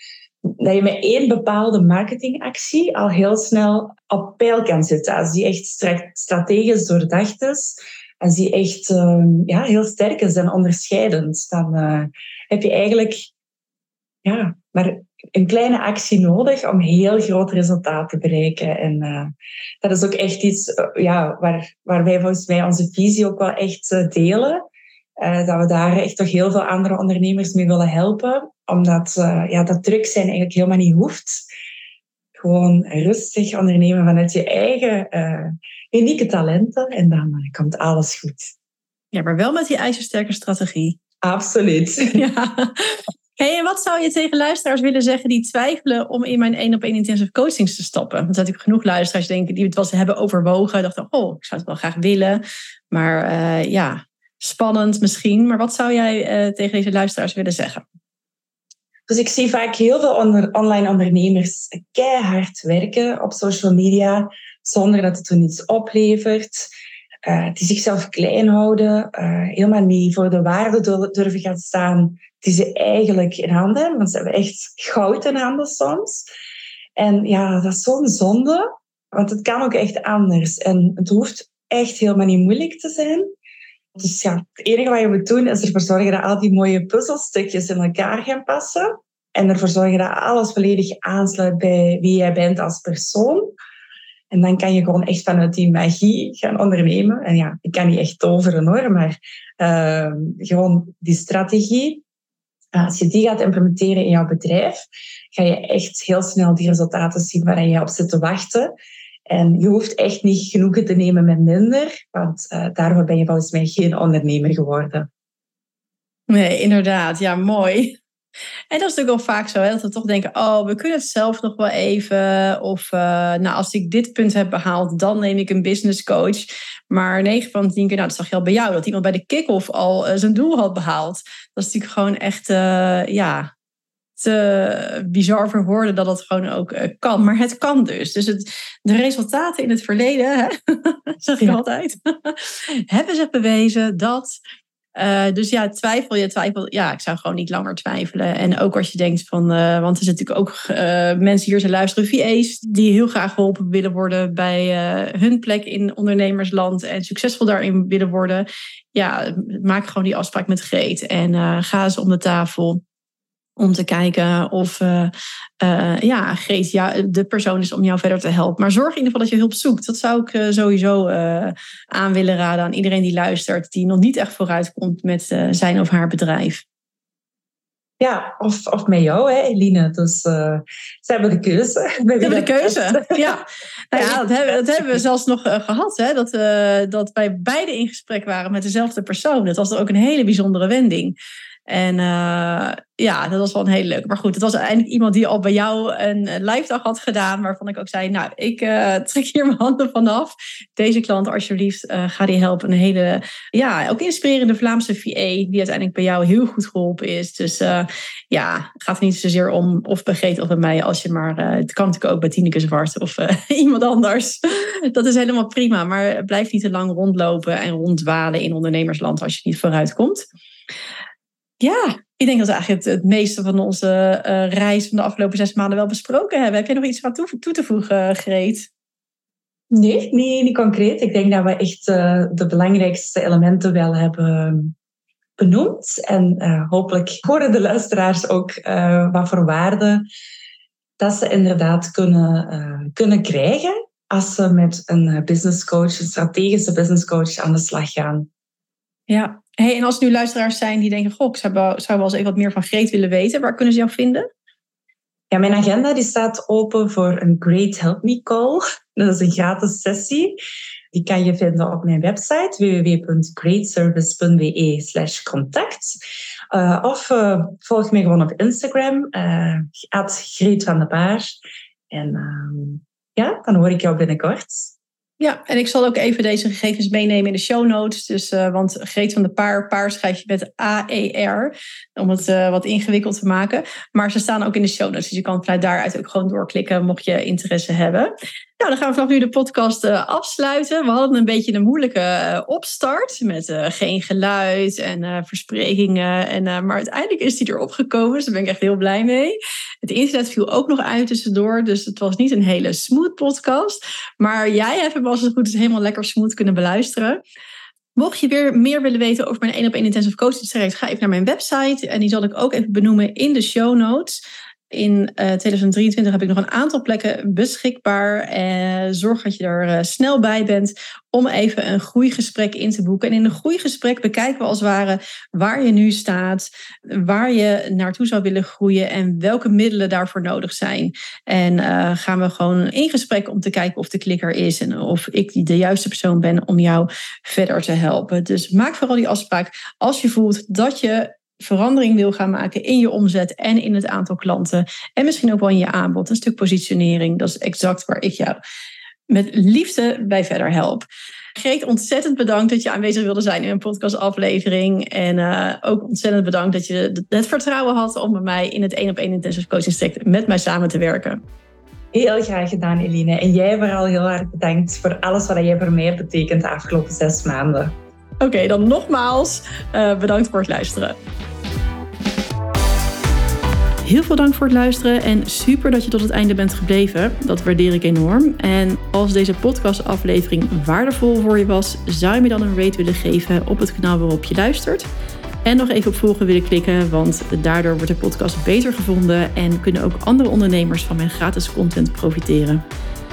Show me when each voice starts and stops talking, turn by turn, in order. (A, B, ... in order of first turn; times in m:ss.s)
0:00.4-0:13.3 A
0:14.2-0:24.6 A
0:25.2-0:31.4 A
0:32.4-0:38.5 A
0:39.1-0:41.0 B
0:41.2-0:42.2 A
0:42.1-0:57.8 B
0:59.1-1:06.7 A
1:07.2-1:16.3 A
1:17.0-1:23.3 A
1:24.0-1:33.5 A
1:34.3-1:42.0 A
1:42.7-1:48.7 A
1:49.3-1:55.1 A
1:56.3-1:58.0 B
1:58.7-2:13.5 B
2:14.2-2:24.4 B
2:25.0-2:42.8 B
2:43.6-2:56.6 B
2:58.0-3:03.4 A
3:02.2-3:11.1 B
3:03.9-3:05.0 A
3:11.7-3:40.3 B
3:41.6-3:48.7 B
3:49.7-3:54.7 A
3:55.4-4:00.0 A
4:01.0-4:08.3 A
4:09.1-4:14.3 B
4:15.3-4:20.4 A
4:20.9-4:26.0 A
4:26.5-4:31.4 A
4:31.9-4:34.7 A
4:35.2-5:07.2 B
5:08.0-5:48.4 B
5:49.1-6:01.2 B
6:01.9-6:07.7 A
6:08.2-6:11.0 B
6:13.8-6:24.9 B
6:25.4-6:32.6 B